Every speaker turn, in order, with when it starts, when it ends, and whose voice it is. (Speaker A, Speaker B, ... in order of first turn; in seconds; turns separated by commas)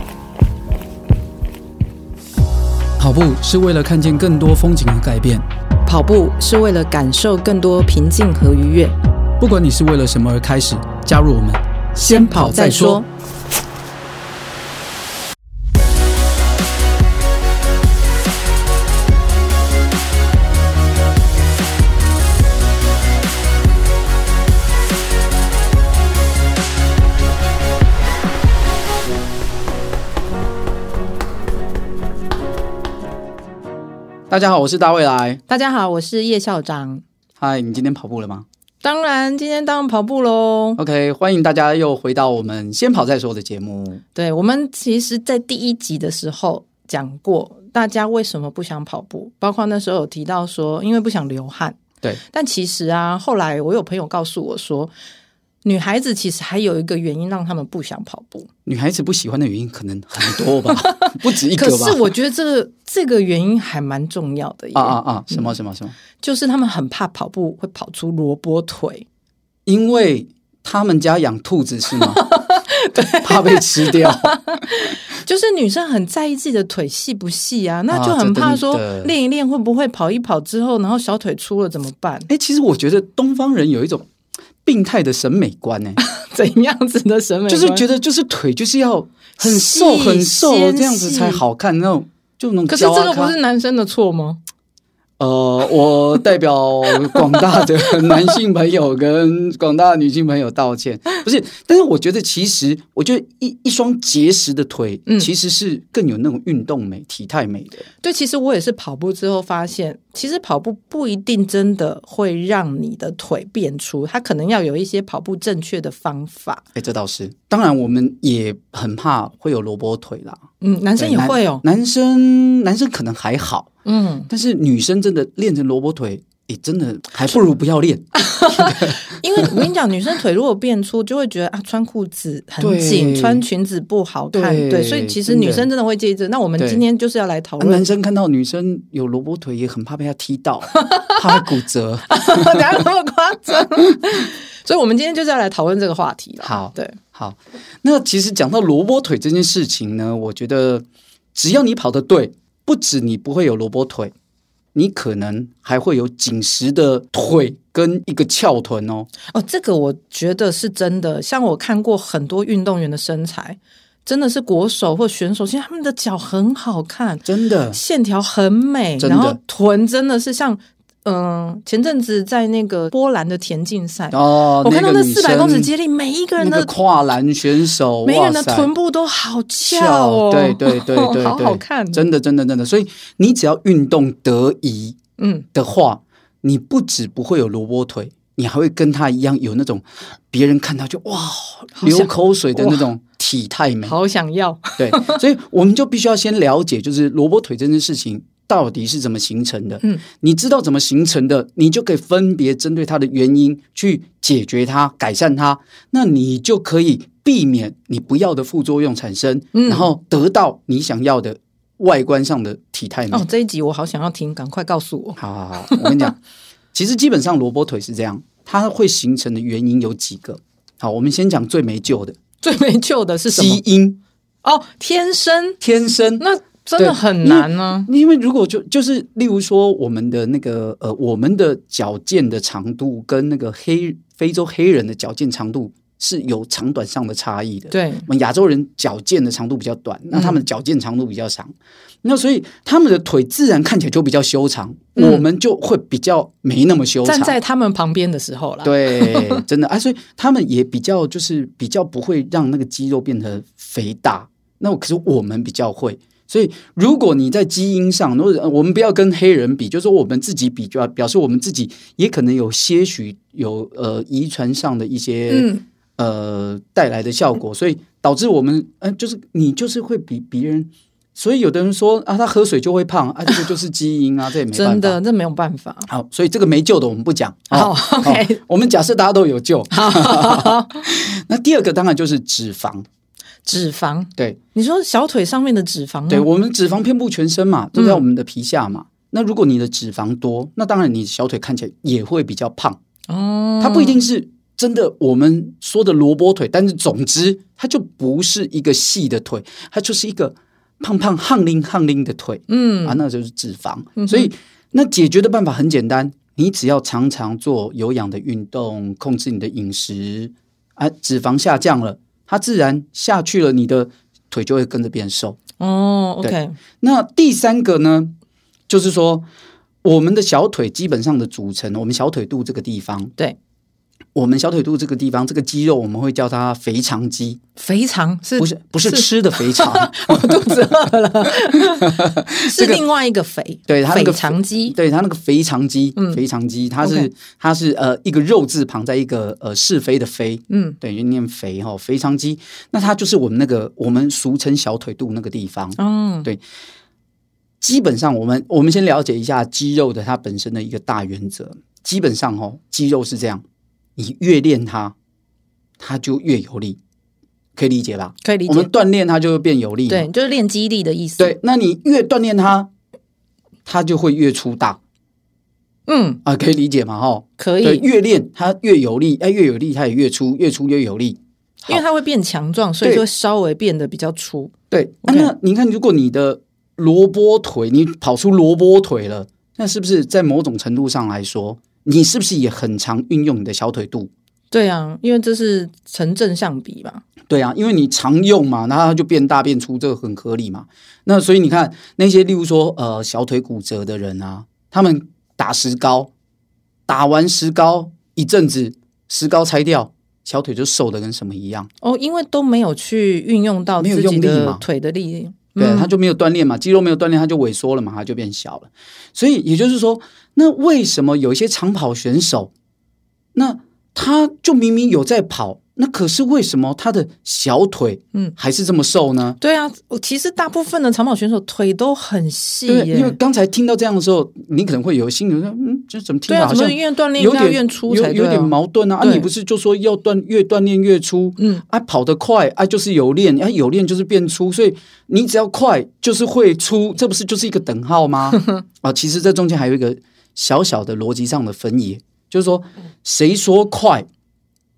Speaker A: 3.0-5.4, Speaker B: 5.9-9.0, Speaker A: 9.4-13.0, Speaker B: 12.0-13.1, Speaker A: 34.3-35.4, Speaker B: 35.5-37.0, Speaker A: 37.4-38.5, Speaker B: 38.8-40.8, Speaker A: 40.8-44.0, Speaker B: 44.1-51.8, Speaker B: 52.3-54.9, Speaker B: 55.6-58.5, Speaker A: 58.7-62.1, Speaker B: 60.4-65.5, Speaker A: 64.8-66.0, Speaker B: 66.2-69.0, Speaker A: 69.7-72.2, Speaker B: 71.9-82.3, Speaker A: 73.2-74.4, Speaker A: 77.9-79.1, Speaker A: 82.3-84.1, Speaker A: 84.7-86.0, Speaker B: 86.0-87.8, Speaker A: 87.5-93.4, Speaker B: 89.4-91.4, Speaker B: 92.7-94.4, Speaker A: 95.2-107.9, Speaker B: 97.0-98.3, Speaker B: 108.0-116.7, Speaker A: 116.8-120.4, Speaker B: 120.6-121.6, Speaker A: 121.0-123.7, Speaker B: 123.8-124.3, Speaker A: 124.3-129.7, Speaker B: 128.2-137.8, Speaker A: 132.6-133.4, Speaker A: 134.3-135.7, Speaker A: 137.6-142.8, Speaker B: 140.8-141.4, Speaker B: 142.1-147.0, Speaker A: 146.4-154.1, Speaker A: 154.8-159.1, Speaker B: 159.3-176.7, Speaker A: 167.2-167.8, Speaker A: 169.0-169.4, Speaker A: 174.1-175.7, Speaker A: 176.4-178.7, Speaker B: 178.1-182.1, Speaker A: 179.7-185.0, Speaker B: 185.2-185.5, Speaker A: 185.5-193.9, Speaker B: 191.8-192.8, Speaker B: 193.8-195.2, Speaker A: 194.8-213.2, Speaker B: 209.5-209.9, Speaker B: 213.1-216.1, Speaker A: 215.2-216.2, Speaker A: 216.7-222.2, Speaker B: 222.4-223.6, Speaker A: 223.3-224.0, Speaker B: 224.4-225.6, Speaker A: 225.6-226.2, Speaker B: 226.2-227.9, Speaker A: 226.8-241.5, Speaker B: 237.7-238.1, Speaker B: 240.1-240.4, Speaker A: 242.0-247.3, Speaker B: 245.0-245.2, Speaker B: 247.1-249.4, Speaker A: 248.6-275.0, Speaker B: 265.3-265.6, Speaker B: 274.5-275.9, Speaker A: 275.9-282.9, Speaker B: 277.5-278.4, Speaker B: 279.7-280.9, Speaker B: 283.5-286.3, Speaker A: 286.1-292.8, Speaker B: 287.8-288.0, Speaker B: 293.1-294.0, Speaker A: 293.6-315.4, Speaker B: 302.5-303.0, Speaker B: 304.0-304.3, Speaker B: 315.6-316.6, Speaker A: 316.2-318.1, Speaker A: 318.7-319.3, Speaker A: 319.8-323.1, Speaker A: 324.1-327.4, Speaker B: 327.6-334.8, Speaker A: 328.4-330.6, Speaker A: 331.8-332.8, Speaker A: 333.7-346.4, Speaker B: 336.0-336.2, Speaker B: 336.8-337.1, Speaker B: 340.5-340.8, Speaker B: 345.8-346.3, Speaker A: 347.6-353.4, Speaker A: 354.0-354.9, Speaker A: 355.8-356.8, Speaker A: 357.6-360.1, Speaker B: 358.2-358.7, Speaker B: 359.9-361.4, Speaker A: 361.2-362.7, Speaker A: 363.7-364.8, Speaker B: 365.9-366.2, Speaker A: 366.2-371.8, Speaker B: 367.4-367.9, Speaker B: 371.7-375.3, Speaker A: 374.7-384.1, Speaker B: 384.5-387.0, Speaker A: 387.3-396.1, Speaker A: 396.9-401.7, Speaker B: 401.8-405.9, Speaker A: 403.8-404.6, Speaker A: 405.6-412.5, Speaker A: 413.4-419.4, Speaker B: 419.4-423.2, Speaker A: 422.7-444.1, Speaker B: 426.3-429.3, Speaker B: 431.4-431.6